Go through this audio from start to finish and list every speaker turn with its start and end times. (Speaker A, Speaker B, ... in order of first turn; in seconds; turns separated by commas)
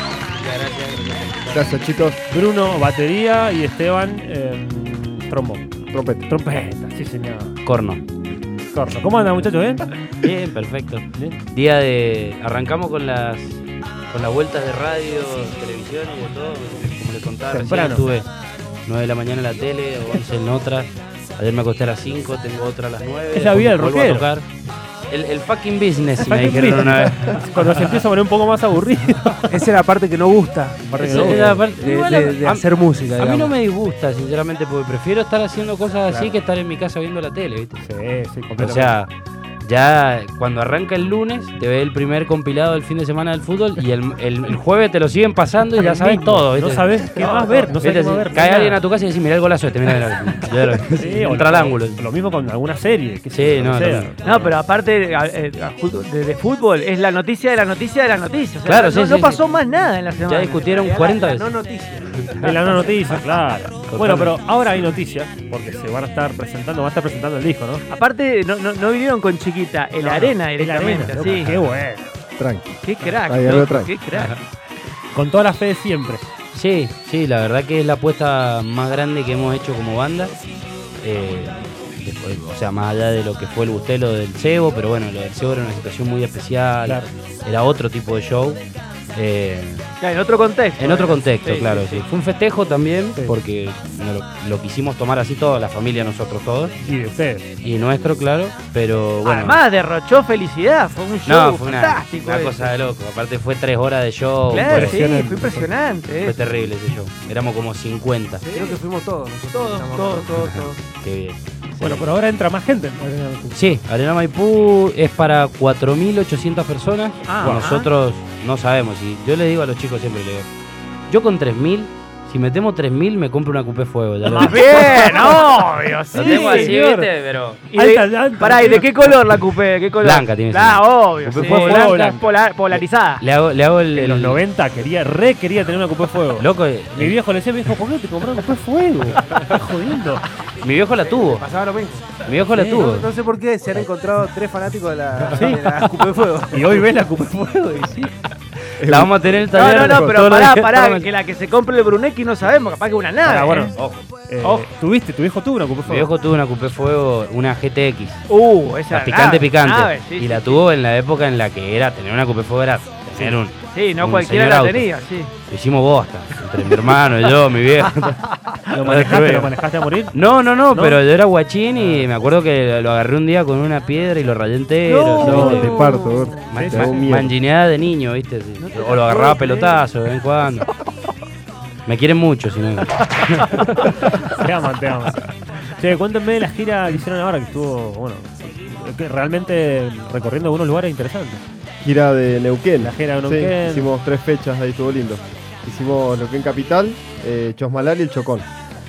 Speaker A: 0.3-1.8, Speaker B: 1.5-2.2, Speaker C: 2.3-5.7, Speaker B: 5.9-6.3, Speaker C: 6.3-7.6, Speaker A: 7.7-8.0, Speaker C: 8.7-9.9, Speaker A: 10.2-18.3, Speaker C: 11.1-11.4, Speaker C: 17.5-18.1, Speaker A: 18.9-24.5, Speaker C: 23.3-24.3, Speaker A: 25.1-28.0, Speaker C: 26.2-29.6, Speaker D: 29.5-33.5, Speaker C: 30.9-31.6, Speaker A: 31.0-37.9, Speaker C: 36.1-36.4, Speaker C: 37.8-38.9, Speaker B: 38.5-38.9, Speaker A: 38.6-39.1, Speaker A: 39.6-47.2, Speaker C: 45.8-48.8, Speaker E: 47.2-47.8, Speaker A: 47.7-52.0, Speaker C: 51.0-54.1, Speaker A: 53.3-54.5, Speaker E: 54.2-60.9, Speaker A: 58.6-59.4, Speaker A: 60.2-61.5, Speaker D: 60.7-62.3, Speaker A: 62.1-62.5, Speaker C: 62.4-67.8, Speaker A: 63.9-64.4, Speaker E: 67.9-71.5, Speaker C: 70.0-72.2, Speaker A: 71.2-71.8, Speaker B: 72.4-73.9, Speaker E: 72.8-74.4, Speaker A: 74.1-74.4, Speaker C: 75.1-76.3, Speaker A: 76.5-80.3, Speaker A: 81.0-89.9, Speaker E: 90.0-92.0, Speaker A: 90.8-96.8, Speaker C: 96.8-97.5, Speaker A: 97.6-99.6, Speaker E: 99.2-102.7, Speaker A: 101.2-105.0, Speaker E: 104.5-106.4, Speaker C: 104.6-105.7, Speaker A: 106.2-108.4, Speaker D: 108.4-110.4, Speaker E: 109.5-110.8, Speaker A: 110.4-112.1, Speaker C: 111.8-113.7, Speaker A: 113.5-120.5, Speaker E: 117.3-117.9, Speaker C: 117.4-117.7, Speaker A: 121.1-125.2, Speaker C: 124.3-127.1, Speaker E: 124.3-126.8, Speaker A: 126.1-127.7, Speaker E: 127.7-133.2, Speaker C: 127.8-129.1, Speaker A: 130.0-132.0, Speaker C: 131.3-132.2, Speaker A: 132.7-134.4, Speaker C: 133.9-140.3, Speaker A: 136.4-137.2, Speaker A: 140.6-141.5, Speaker D: 141.2-146.8, Speaker A: 142.3-143.1, Speaker C: 145.3-145.8, Speaker C: 146.5-148.1, Speaker B: 148.8-150.0, Speaker A: 148.8-151.1, Speaker E: 149.5-153.7, Speaker C: 153.2-156.1, Speaker A: 153.8-154.1, Speaker A: 155.9-158.3, Speaker E: 158.3-160.7, Speaker A: 158.9-164.9, Speaker C: 163.1-163.4, Speaker E: 163.7-165.3, Speaker A: 165.5-168.2, Speaker C: 168.7-170.2, Speaker A: 168.8-169.5, Speaker A: 170.1-175.8, Speaker C: 170.7-171.0, Speaker C: 171.8-172.1, Speaker E: 174.9-176.5, Speaker B: 175.2-177.3, Speaker A: 176.5-180.7, Speaker C: 176.5-177.1, Speaker E: 178.6-179.8, Speaker A: 181.9-183.8, Speaker C: 183.7-191.4, Speaker B: 191.8-198.5, Speaker C: 192.8-193.9